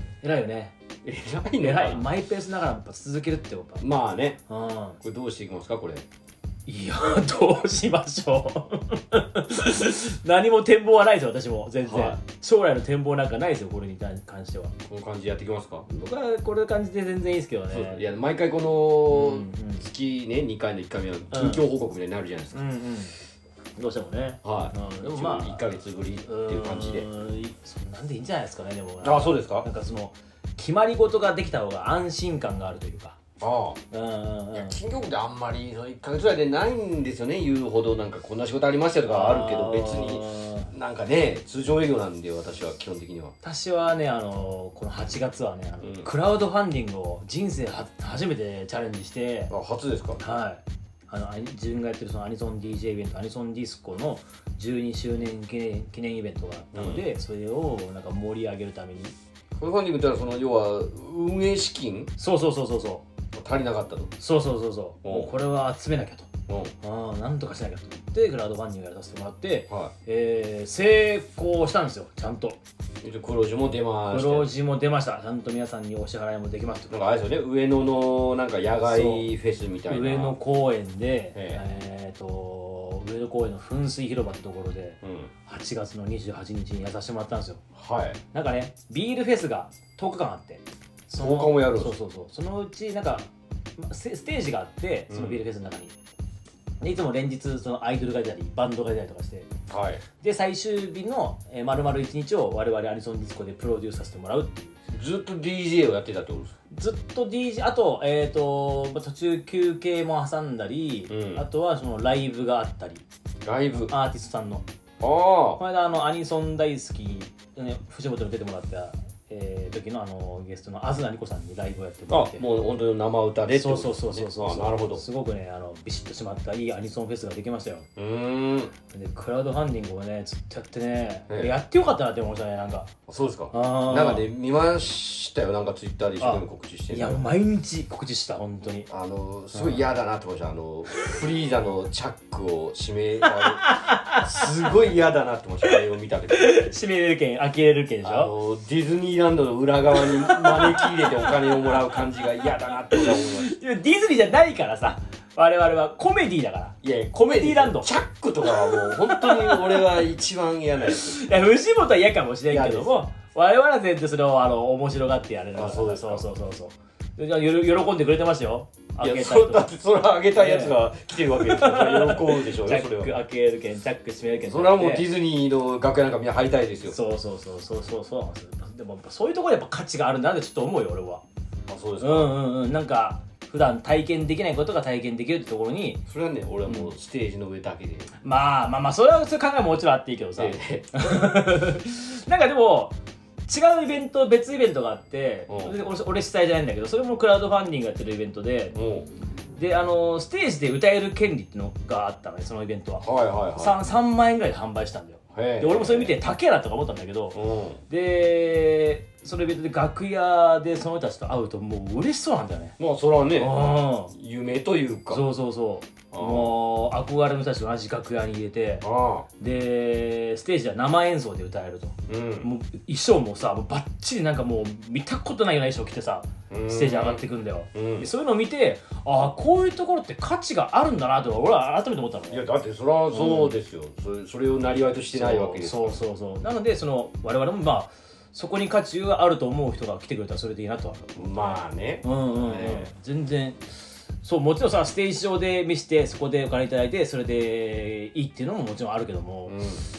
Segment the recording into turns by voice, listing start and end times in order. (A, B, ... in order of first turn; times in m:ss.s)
0:00.2-0:00.7 A
0:01.0-0:02.1 B
0:01.6-0:03.8 A
0:03.8-0:04.4 B
0:04.5-0:05.0 A
0:05.0-0:06.0 B
0:06.7-0:14.7 A
0:11.8-0:12.2 B
0:14.8-0:15.9 B
0:15.9-0:18.1 A
0:17.7-0:22.7 B
0:19.1-0:19.8 A
0:21.3-0:21.6 A
0:22.5-0:23.1 A
0:23.8-0:25.7 A
0:24.4-0:27.1 B
0:26.2-0:33.2 A
0:29.0-0:29.7 B
0:33.4-0:33.8 B
0:33.9-0:34.8 A
0:34.5-0:43.3 B
0:39.1-0:40.7 A
0:43.4-0:49.5 A
0:45.8-0:46.1 B
0:49.5-0:50.2 B
0:50.2-0:59.1 A
0:56.7-0:57.0 B
0:59.6-1:02.1 B
1:02.2-1:03.0 A
1:03.3-1:04.1 B
1:04.2-1:06.3 A
1:05.0-1:05.3 B
1:06.5-1:06.7 B
1:06.8-1:12.6 A
1:13.0-1:14.5 B
1:14.1-1:17.2 A
1:16.9-1:20.4 B
1:18.8-1:19.3 A
1:19.9-1:27.6 A
1:21.3-1:21.6 B
1:25.0-1:25.3 B
1:27.8-1:28.2 B
1:28.3-1:35.9 A
1:31.2-1:31.9 B
1:35.1-1:35.4 B
1:36.8-1:39.5 A
1:39.7-1:40.0 B
1:40.2-1:44.7 A
1:44.9-1:46.5 B
1:46.7-1:53.0 A
1:51.1-1:51.4 B
1:53.4-1:53.9 B
1:53.9-1:54.6 A
1:55.0-1:55.6 B
1:55.5-2:02.4 A
2:02.1-2:05.0 B
2:03.5-2:07.9 A
2:08.0-2:08.7 B
2:08.9-2:12.9 A
2:13.1-2:17.3 B
2:13.5-2:14.3 A
2:16.2-2:18.9 A
2:18.9-2:26.5 B
2:19.5-2:19.9 A
2:23.4-2:24.4 A
2:26.3-2:28.3 A
2:28.0-2:33.5 B
2:29.9-2:37.9 A
2:36.8-2:41.3 B
2:38.4-2:40.1 A
2:40.9-2:49.7 A
2:42.5-2:43.0 B
2:45.5-2:46.3 B
2:49.0-2:53.2 B
2:50.3-2:55.1 A
2:54.3-2:57.0 B
2:56.8-3:01.2 A
3:01.7-3:02.4 B
3:02.0-3:06.0 A
3:06.1-3:08.1 B
3:06.6-3:06.9 A
3:08.2-3:12.9 A
3:10.4-3:11.4 B
3:13.5-3:18.8 A
3:15.5-3:15.9 B
3:18.7-3:19.1 B
3:19.6-3:32.8 A
3:23.0-3:23.8 B
3:25.3-3:26.2 B
3:27.3-3:27.8 B
3:32.8-3:35.2 B
3:33.4-3:34.1 A
3:35.1-3:38.8 A
3:36.1-3:36.5 B
3:38.8-3:39.2 B
3:39.4-3:52.4 A
3:42.1-3:42.5 B
3:46.5-3:48.1 B
3:52.3-3:56.0 B
3:53.1-3:53.6 A
3:55.1-4:09.6 A
4:01.2-4:02.9 B
4:09.4-4:09.8 B